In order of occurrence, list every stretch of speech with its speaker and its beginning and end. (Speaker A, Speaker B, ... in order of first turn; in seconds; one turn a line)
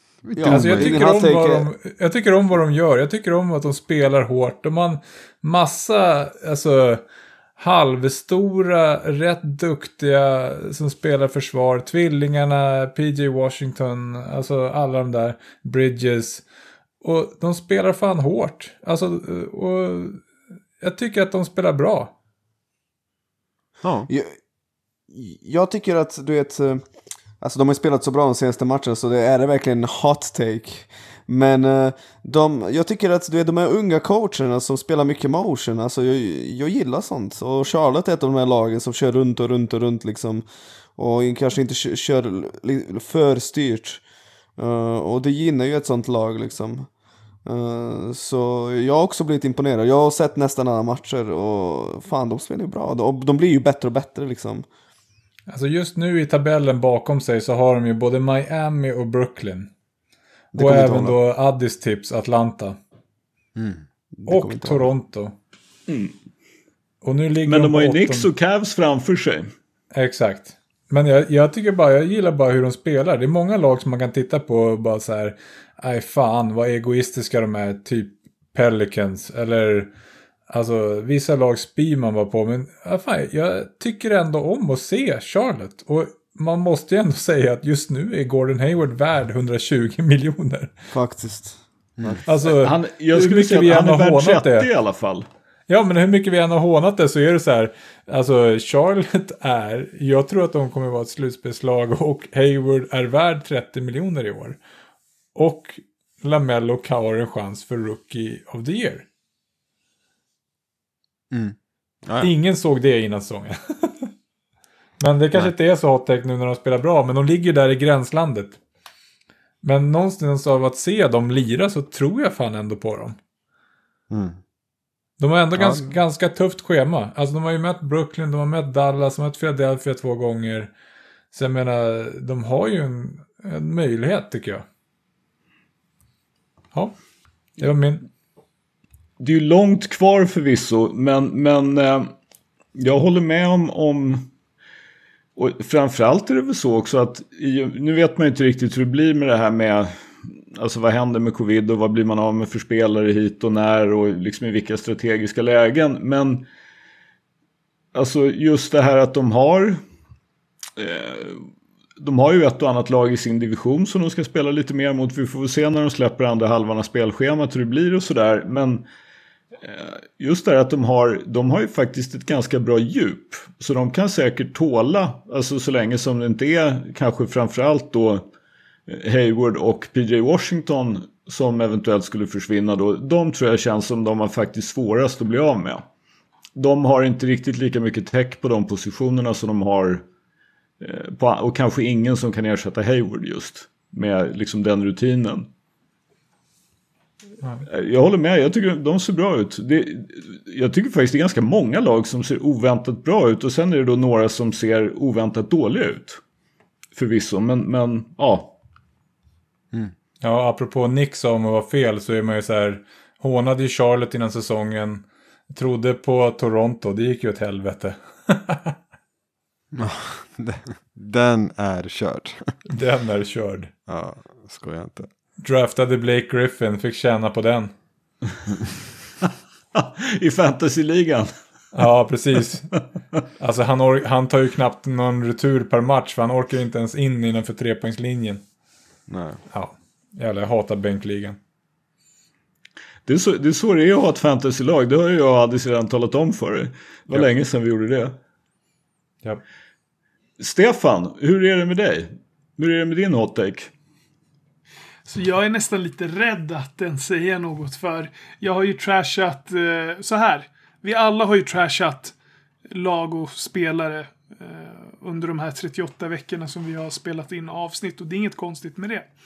Speaker A: 0.2-1.0
Speaker B: 0.4-1.7
Speaker C: 0.4-7.0
Speaker C: 7.6-16.4
Speaker C: 17.0-20.3
Speaker C: 20.8-22.1
Speaker A: 23.8-24.1
Speaker B: 24.1-24.4
Speaker B: 25.1-26.8
Speaker B: 27.4-40.5
Speaker B: 41.0-44.0
Speaker B: 44.6-46.9
Speaker B: 47.5-54.7
Speaker C: 55.5-59.7
Speaker B: 60.5-61.2
Speaker C: 60.5-62.8
Speaker A: 63.6-63.8
Speaker B: 64.2-64.9
Speaker C: 64.3-65.3
Speaker D: 65.9-66.1
Speaker C: 67.0-68.3
Speaker D: 67.5-69.5
Speaker C: 69.9-79.9
Speaker C: 80.5-90.7
Speaker B: 90.9-92.2
Speaker C: 92.2-94.7
Speaker D: 92.4-95.3
Speaker C: 95.7-104.6
Speaker C: 105.3-109.1
Speaker C: 112.2-114.1
Speaker C: 115.0-118.6
Speaker C: 119.6-123.2
Speaker A: 124.1-124.4
Speaker C: 125.2-130.7
Speaker A: 125.6-126.0
Speaker C: 131.3-134.7
Speaker C: 137.6-138.1
Speaker D: 139.2-142.1
Speaker D: 142.8-144.3
Speaker D: 145.4-149.9
Speaker D: 150.5-156.5
Speaker D: 157.9-159.8
Speaker D: 160.8-161.5
Speaker D: 162.0-168.9
Speaker D: 169.6-178.3
Speaker D: 178.9-185.8
Speaker D: 186.6-190.1
Speaker D: 190.8-195.5
Speaker D: 197.7-206.2
Speaker D: 206.9-208.6
Speaker C: 210.2-218.8
Speaker A: 219.7-222.5
Speaker C: 222.7-223.7
Speaker A: 223.9-225.1
Speaker C: 225.4-227.7
Speaker D: 229.8-231.3
Speaker C: 231.7-232.7
Speaker C: 233.4-238.4
Speaker A: 239.1-239.4
Speaker C: 239.5-241.4
Speaker D: 243.1-248.2
Speaker D: 250.4-253.7
Speaker E: 255.1-262.1
Speaker E: 262.7-269.1